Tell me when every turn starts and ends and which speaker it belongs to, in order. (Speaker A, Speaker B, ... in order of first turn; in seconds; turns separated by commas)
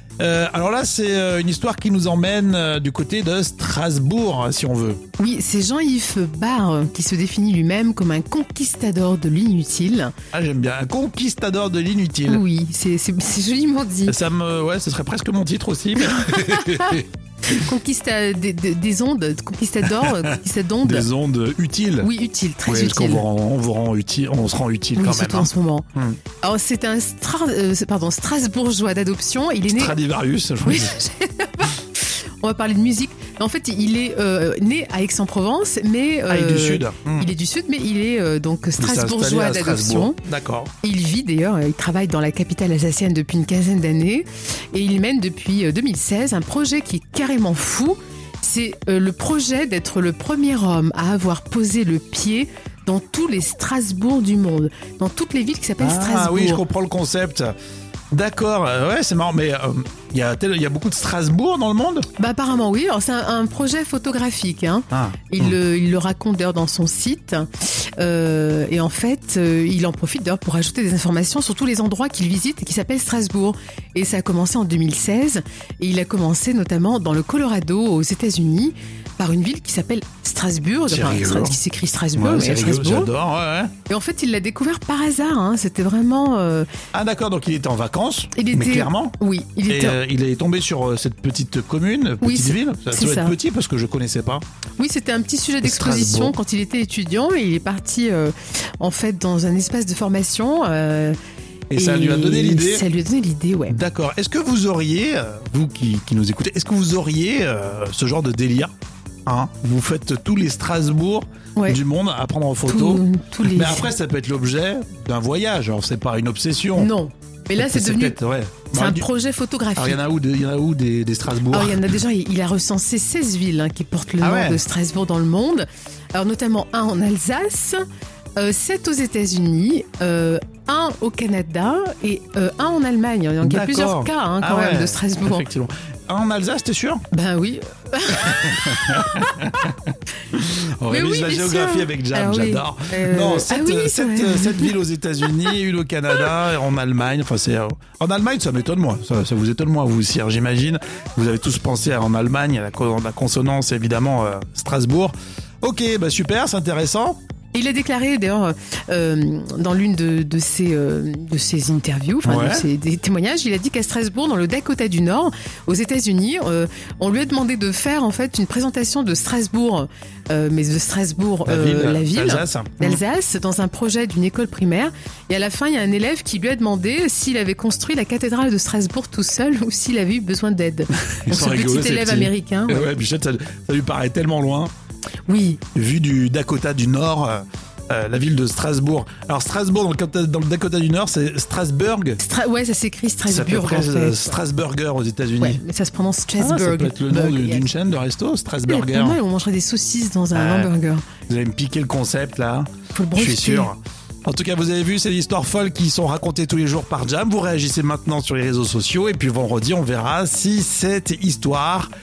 Speaker A: 0.2-5.0, Speaker B: 5.2-10.1, Speaker A: 10.3-12.4, Speaker B: 12.3-14.2, Speaker A: 14.1-17.0, Speaker B: 16.1-21.1, Speaker A: 20.8-22.1, Speaker B: 22.0-23.2, Speaker A: 22.7-26.2, Speaker B: 25.0-25.9, Speaker B: 26.4-30.0, Speaker A: 29.7-31.0, Speaker B: 30.7-40.2, Speaker A: 36.3-37.3, Speaker A: 38.8-40.7, Speaker B: 40.8-56.6, Speaker A: 55.8-57.5, Speaker A: 58.1-62.1, Speaker B: 62.2-83.1, Speaker A: 64.9-65.6, Speaker A: 80.9-81.6, Speaker A: 82.2-83.7, Speaker B: 83.9-86.7, Speaker A: 86.9-89.2, Speaker B: 88.4-90.0, Speaker A: 89.7-94.4, Speaker B: 92.2-93.3, Speaker B: 94.8-101.2, Speaker A: 95.6-96.4, Speaker A: 101.7-102.8, Speaker B: 101.7-103.8, Speaker A: 103.7-108.7, Speaker A: 109.3-116.9, Speaker B: 112.7-113.9, Speaker B: 116.8-118.2, Speaker A: 117.6-119.0, Speaker B: 118.7-120.0, Speaker A: 119.8-122.0, Speaker B: 121.5-127.8, Speaker A: 124.2-124.6, Speaker B: 128.4-135.4, Speaker A: 133.4-137.0, Speaker B: 137.1-139.3, Speaker A: 138.1-157.2, Speaker B: 140.9-144.7, Speaker B: 157.5-182.9, Speaker A: 162.2-162.7, Speaker A: 171.5-173.0, Speaker A: 181.3-184.7, Speaker B: 185.3-185.6, Speaker A: 185.8-192.2, Speaker B: 192.2-194.4, Speaker A: 193.3-195.6, Speaker B: 195.4-197.7, Speaker A: 196.4-199.2, Speaker B: 198.7-201.1, Speaker A: 200.3-200.7, Speaker A: 201.3-211.9, Speaker B: 202.9-203.7